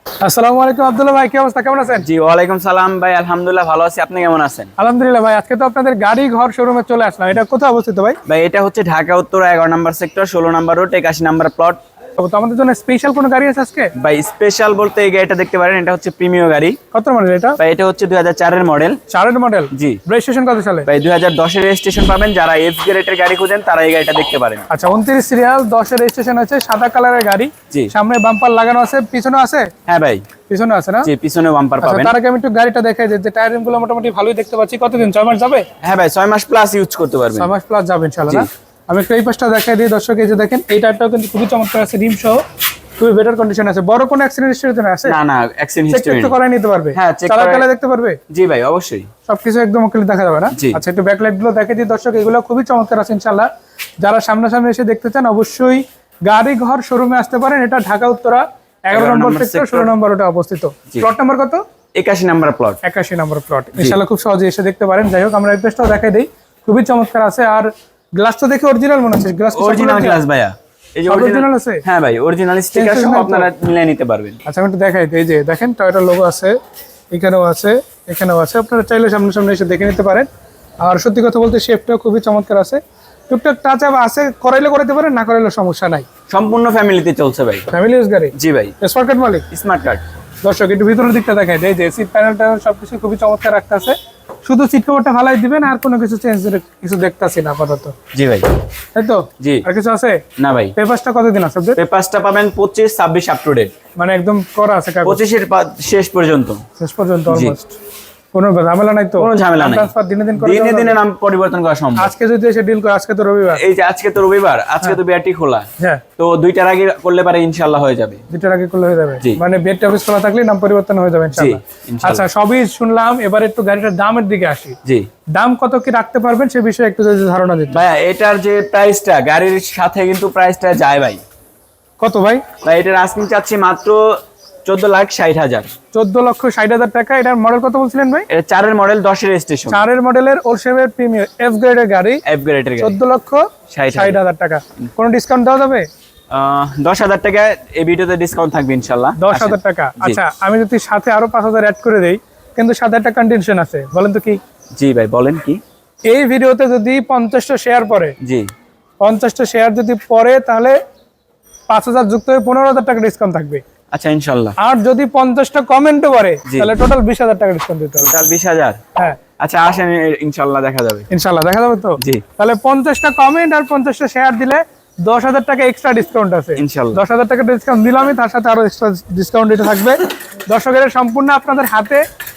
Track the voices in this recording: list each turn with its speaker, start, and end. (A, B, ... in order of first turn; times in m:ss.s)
0:00.2-0:02.1 A
0:02.0-0:04.7 B
0:04.8-0:08.2 A
0:08.3-0:11.8 B
0:12.2-0:13.9 A
0:14.0-0:16.8 B
0:16.9-0:17.6 A
0:17.6-0:19.0 B
0:19.1-0:20.9 A
0:19.7-0:20.0 B
0:20.9-0:24.7 B
0:24.7-0:29.7 A
0:29.9-0:30.3 B
0:30.5-0:31.1 A
0:31.0-0:32.1 B
0:31.8-0:35.7 A
0:35.8-0:37.5 B
0:37.3-0:42.4 A
0:43.0-0:45.2 A
0:45.0-0:46.4 B
0:45.9-0:48.2 A
0:46.9-0:47.7 B
0:48.3-0:49.1 B
0:49.3-0:53.5 A
0:50.5-0:50.8 B
0:54.0-1:01.6 A
0:58.9-0:59.9 B
1:02.0-1:02.8 B
1:02.8-1:10.2 A
1:09.5-1:14.4 B
1:11.1-1:11.8 A
1:12.8-1:13.5 A
1:14.5-1:16.6 A
1:17.1-1:20.3 A
1:20.8-1:26.1 A
1:26.3-1:27.7 B
1:27.7-1:29.5 A
1:28.3-1:28.8 B
1:29.5-1:30.0 B
1:30.4-1:37.9 A
1:38.1-1:38.5 B
1:39.0-1:40.2 A
1:39.4-1:39.7 B
1:40.4-1:40.8 B
1:40.8-1:41.8 A
1:41.8-1:43.7 B
1:44.0-1:45.2 A
1:45.0-1:46.6 B
1:46.8-1:47.7 A
1:47.3-1:47.6 B
1:48.3-1:51.0 A
1:49.2-1:52.1 B
1:52.0-1:53.6 A
1:53.5-1:58.2 B
1:58.3-2:04.8 A
2:01.3-2:02.3 B
2:05.4-2:07.8 A
2:07.7-2:11.2 B
2:12.0-2:12.4 A
2:12.6-2:14.1 B
2:14.6-2:15.7 B
2:15.9-2:18.3 A
2:18.3-2:19.8 B
2:19.7-2:22.2 A
2:22.2-2:23.0 B
2:22.8-2:25.9 A
2:23.7-2:24.2 B
2:26.3-2:30.2 B
2:29.2-2:34.4 A
2:34.8-2:35.6 B
2:36.1-2:38.2 A
2:38.2-2:38.5 B
2:39.0-2:40.8 A
2:41.7-2:43.6 A
2:43.9-2:44.6 B
2:44.6-2:48.2 A
2:46.5-2:46.7 B
2:48.0-2:48.8 B
2:49.4-2:51.1 B
2:51.1-3:02.0 A
2:52.0-2:52.2 B
2:56.6-2:57.0 B